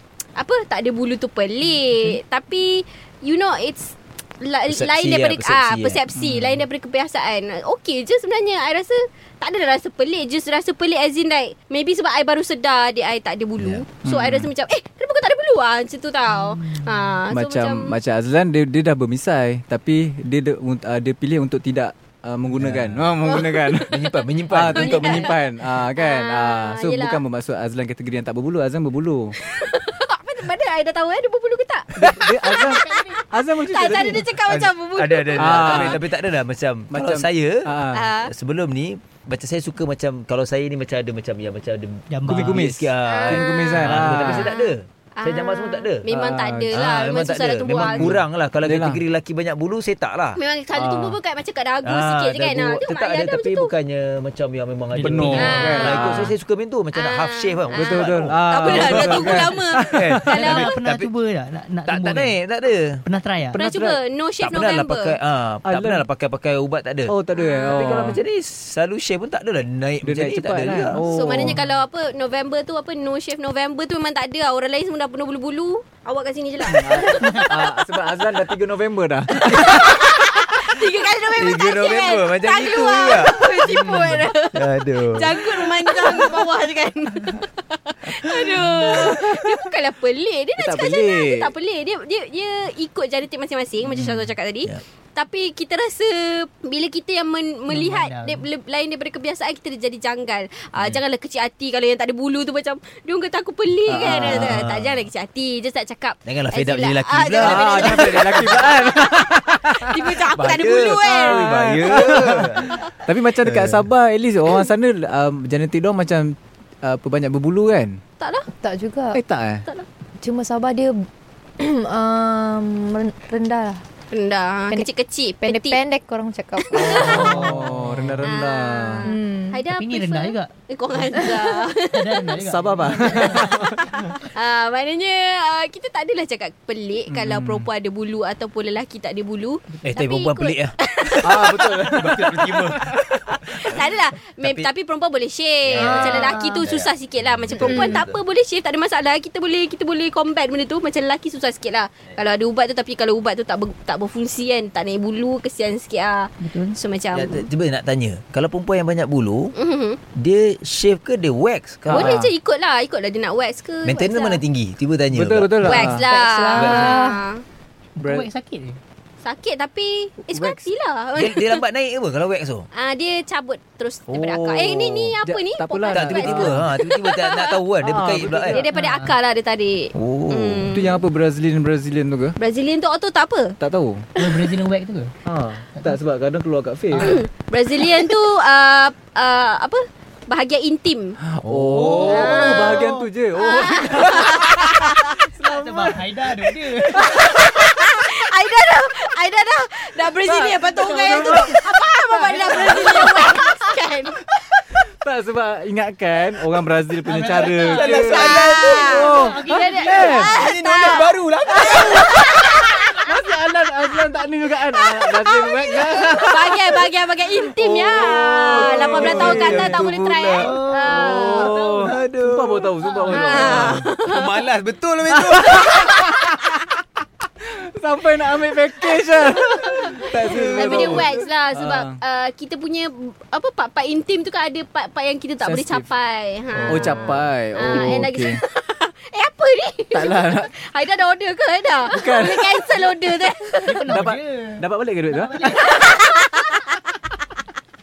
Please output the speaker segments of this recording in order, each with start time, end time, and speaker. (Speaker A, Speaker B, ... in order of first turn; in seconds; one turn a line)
Speaker A: 0.4-18.0
Speaker B: 4.7-6.1
Speaker C: 6.2-6.6
Speaker B: 13.6-14.2
Speaker C: 14.1-14.5
Speaker D: 16.3-17.1
Speaker C: 17.3-29.4
Speaker B: 22.5-23.0
Speaker A: 23.2-27.2
Speaker B: 23.9-25.3
Speaker A: 29.4-35.5
Speaker C: 31.9-34.3
Speaker B: 34.4-46.0
Speaker C: 35.3-36.0
Speaker C: 36.9-38.1
Speaker A: 37.9-38.3
Speaker D: 42.1-42.7
Speaker C: 42.3-44.5
Speaker A: 43.0-48.1
Speaker C: 46.1-46.8
Speaker B: 46.7-51.0
Speaker C: 47.8-49.0
Speaker A: 50.4-53.7
Speaker B: 51.8-61.1
Speaker C: 54.9-56.3
Speaker A: 55.4-56.3
Speaker A: 56.9-60.5
Speaker C: 57.7-60.7
Speaker D: 60.4-62.4
Speaker B: 61.9-63.0
Speaker D: 63.0-63.6
Speaker C: 63.5-64.0
Speaker A: 63.5-65.2
Speaker B: 64.4-67.2
Speaker C: 65.6-66.0
Speaker C: 67.1-68.2
Speaker A: 67.3-67.9
Speaker B: 67.7-71.5
Speaker C: 70.0-71.6
Speaker A: 71.1-77.8
Speaker C: 76.7-80.0
Speaker B: 79.4-79.7
Speaker A: 79.5-109.1
Speaker B: 81.4-85.7
Speaker C: 88.8-89.1
Speaker C: 90.5-91.5
Speaker C: 93.9-94.3
Speaker D: 97.7-98.5
Speaker C: 103.9-104.6
Speaker B: 104.0-105.1
Speaker B: 106.2-108.3
Speaker C: 107.4-110.2
Speaker A: 109.8-111.5
Speaker B: 110.3-112.8
Speaker C: 111.2-118.0
Speaker B: 113.4-113.8
Speaker A: 118.2-118.5
Speaker E: 118.6-119.2
Speaker C: 119.1-119.7
Speaker E: 120.2-121.0
Speaker E: 121.6-123.8
Speaker A: 124.1-125.8
Speaker E: 125.4-127.5
Speaker A: 126.6-127.3
Speaker C: 126.8-129.1
Speaker A: 128.2-132.3
Speaker E: 129.0-129.6
Speaker D: 129.7-131.3
Speaker D: 131.9-133.6
Speaker C: 132.4-133.8
Speaker A: 133.1-141.8
Speaker C: 137.1-137.7
Speaker B: 139.8-140.8
Speaker C: 141.2-143.0
Speaker B: 141.9-143.8
Speaker A: 143.7-157.4
Speaker B: 144.4-144.7
Speaker B: 145.6-148.2
Speaker E: 145.8-146.6
Speaker E: 147.6-148.0
Speaker D: 156.4-156.8
Speaker B: 157.1-159.5
Speaker A: 159.5-160.0
Speaker B: 160.1-162.3
Speaker A: 161.9-164.4
Speaker C: 161.9-162.2
Speaker B: 163.8-165.9
Speaker C: 165.1-166.1
Speaker A: 165.6-167.4
Speaker E: 165.9-167.2
Speaker B: 166.5-167.0
Speaker D: 168.0-168.8
Speaker C: 168.0-168.3
Speaker A: 169.2-171.6
Speaker C: 170.3-170.7
Speaker B: 171.2-172.7
Speaker A: 172.7-177.5
Speaker B: 174.1-175.2
Speaker C: 175.2-176.7
Speaker B: 175.9-178.7
Speaker C: 177.8-178.7
Speaker A: 178.5-181.0
Speaker D: 178.7-179.1
Speaker B: 179.9-180.7
Speaker C: 180.7-182.4
Speaker A: 182.4-183.6
Speaker C: 183.6-184.1
Speaker D: 184.2-185.1
Speaker C: 185.2-187.2
Speaker A: 187.0-191.2
Speaker C: 191.2-196.0
Speaker D: 191.5-193.1
Speaker A: 192.0-192.8
Speaker A: 193.4-195.1
Speaker D: 195.3-197.1
Speaker A: 196.9-204.2
Speaker C: 200.2-201.6
Speaker D: 200.8-201.5
Speaker D: 202.1-203.5
Speaker C: 205.0-210.3
Speaker D: 207.0-208.3
Speaker B: 207.6-208.9
Speaker A: 208.1-213.0
Speaker D: 208.9-210.4
Speaker B: 210.3-212.6
Speaker C: 212.9-216.8
Speaker A: 214.8-221.5
Speaker B: 217.6-220.7
Speaker C: 217.9-219.8
Speaker D: 220.4-221.9
Speaker C: 220.9-223.9
Speaker B: 221.3-222.8
Speaker D: 222.8-223.2
Speaker A: 223.1-224.3
Speaker B: 224.0-225.9
Speaker C: 225.1-226.4
Speaker A: 225.5-226.1
Speaker C: 227.4-232.0
Speaker A: 229.8-243.9
Speaker B: 230.2-231.1
Speaker C: 235.4-235.9
Speaker B: 236.6-237.2
Speaker C: 236.6-238.4
Speaker C: 239.9-240.5
Speaker C: 241.9-242.6
Speaker D: 243.6-245.7
Speaker C: 243.9-245.4
Speaker A: 245.6-246.8